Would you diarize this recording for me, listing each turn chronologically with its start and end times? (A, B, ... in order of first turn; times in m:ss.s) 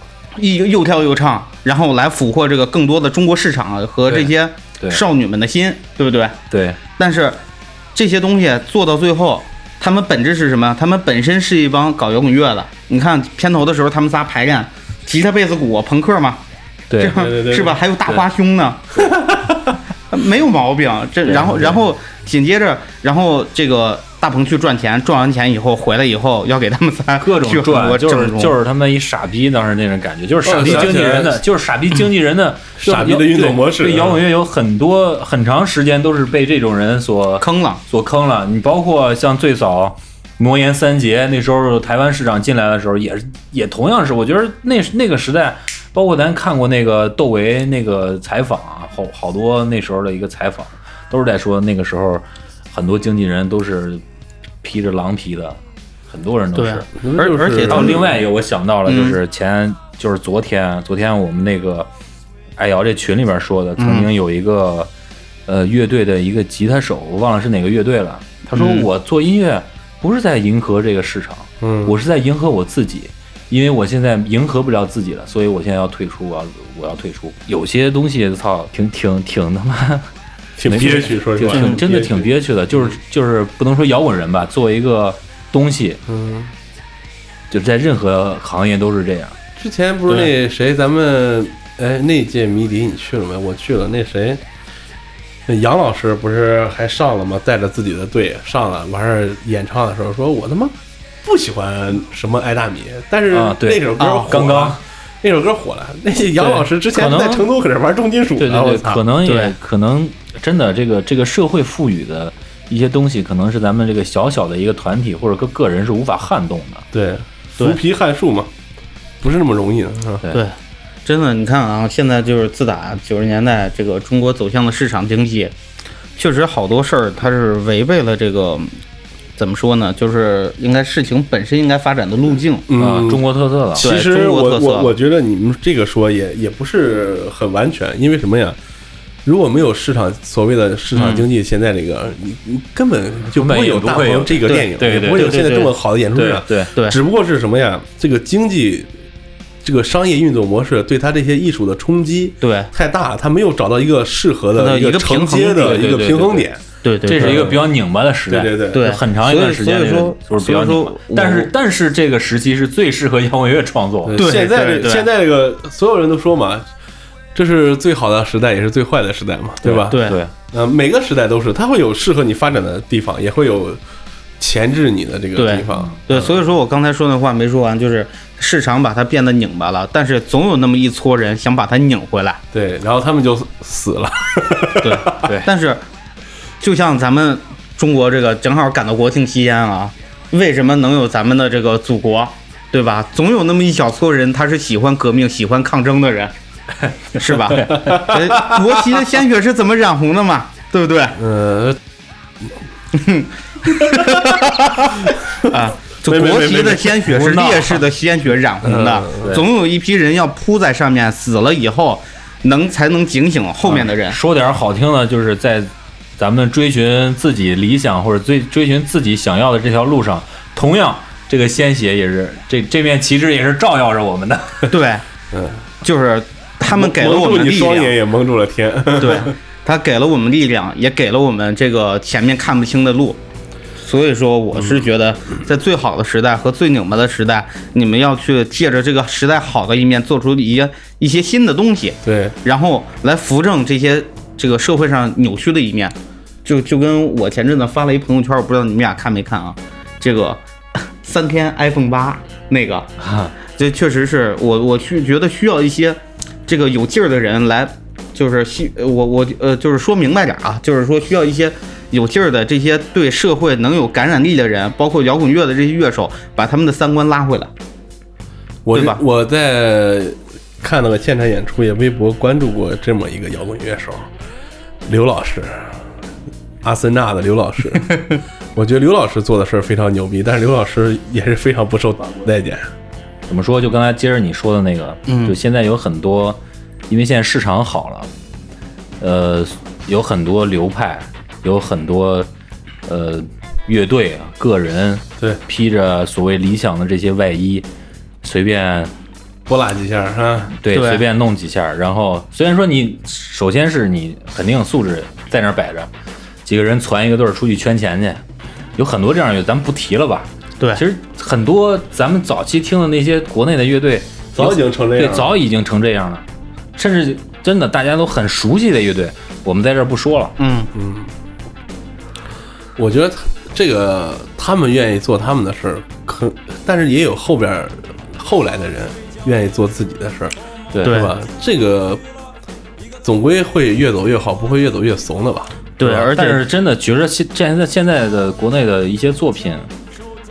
0:00.3-0:06.4 A
0:06.5-0:06.8 B
0:07.0-0:07.4 A
0:07.9-0:16.4 A
0:16.9-0:17.2 B
0:17.0-0:19.1 A
0:17.1-0:17.8 C
0:19.2-0:19.5 C
0:20.1-0:28.6 A
0:21.3-0:21.8 C
0:27.2-0:54.0 B
0:30.4-0:31.4 C
0:32.8-0:34.2 C
0:37.4-0:37.8 A
0:54.6-0:56.9 B
0:56.5-0:58.1 A
0:57.0-0:58.0 C
0:57.6-1:01.9 B
0:58.8-0:59.2 A
1:02.6-1:04.9 B
1:03.8-1:04.1 A
1:05.5-1:20.1 B
1:08.5-1:08.9 A
1:11.6-1:11.9 C
1:20.6-1:22.3 C
1:20.7-1:26.0 B
1:21.5-1:21.8 A
1:26.1-1:26.5 C
1:27.5-1:29.4 B
1:29.6-1:34.4 C
1:35.5-1:49.0 C
1:43.3-1:44.8 B
1:46.4-1:47.5 B
1:48.4-1:56.8 B
1:49.2-1:49.5 A
1:56.9-1:58.5 C
1:59.2-2:00.2 C
2:00.3-2:05.5 A
2:06.2-2:08.8 A
2:09.4-2:12.6 A
2:12.7-2:13.2 C
2:12.8-2:13.9 B
2:13.8-2:18.6 C
2:13.8-2:14.9 A
2:19.2-2:28.9 C
2:21.0-2:21.2 A
2:23.3-2:25.4 B
2:24.5-2:25.7 A
2:26.1-2:26.7 B
2:29.6-2:36.6 C
2:32.4-2:32.7 A
2:34.5-2:35.9 A
2:35.6-2:36.5 B
2:36.8-2:37.5 A
2:37.0-2:44.2 B
2:37.2-2:37.6 C
2:38.3-2:38.8 C
2:38.7-2:41.5 A
2:44.0-2:46.6 C
2:44.2-2:45.1 A
2:47.3-2:50.0 C
2:49.6-2:50.3 B
2:49.9-2:50.2 A
2:50.5-2:53.8 C
2:54.4-2:55.9 C
2:55.4-3:02.4 A
2:55.8-2:56.2 B
3:02.5-3:05.3 C
3:04.8-3:05.8 A
3:05.2-3:05.5 B
3:06.6-3:16.3 A
3:17.1-3:21.2 A
3:17.7-3:18.0 B
3:17.7-3:18.5 C
3:21.2-3:21.8 C
3:22.9-3:34.2 A
3:26.0-3:27.0 C
3:27.1-3:27.8 B
3:28.6-3:29.3 C
3:33.6-3:44.7 B
3:44.7-3:45.0 A
3:45.3-3:45.6 C
3:45.8-3:48.0 A
3:46.6-3:49.3 C
3:49.0-3:53.2 A
3:53.8-4:12.9 A
4:02.0-4:02.4 C
4:13.0-4:13.3 B
4:13.5-4:27.5 A
4:28.6-4:34.1 C
4:28.7-4:29.0 A
4:34.9-4:35.8 C
4:36.6-4:42.7 C
4:43.3-4:48.1 B
4:45.1-4:45.3 A
4:49.0-4:52.3 B
4:52.9-4:57.6 B
4:58.2-4:58.9 B
4:59.5-5:00.5 C
5:00.6-5:05.9 B
5:00.7-5:01.0 A
5:06.4-5:08.2 B
5:08.8-5:16.2 B
5:14.4-5:15.3 C
5:16.8-5:20.3 B
5:20.4-5:20.7 A
5:20.7-5:21.1 C
5:22.8-5:32.0 C
5:30.7-5:31.0 B
5:30.8-5:31.1 A
5:33.0-5:35.5 C
5:35.8-5:36.4 A
5:35.8-5:39.7 B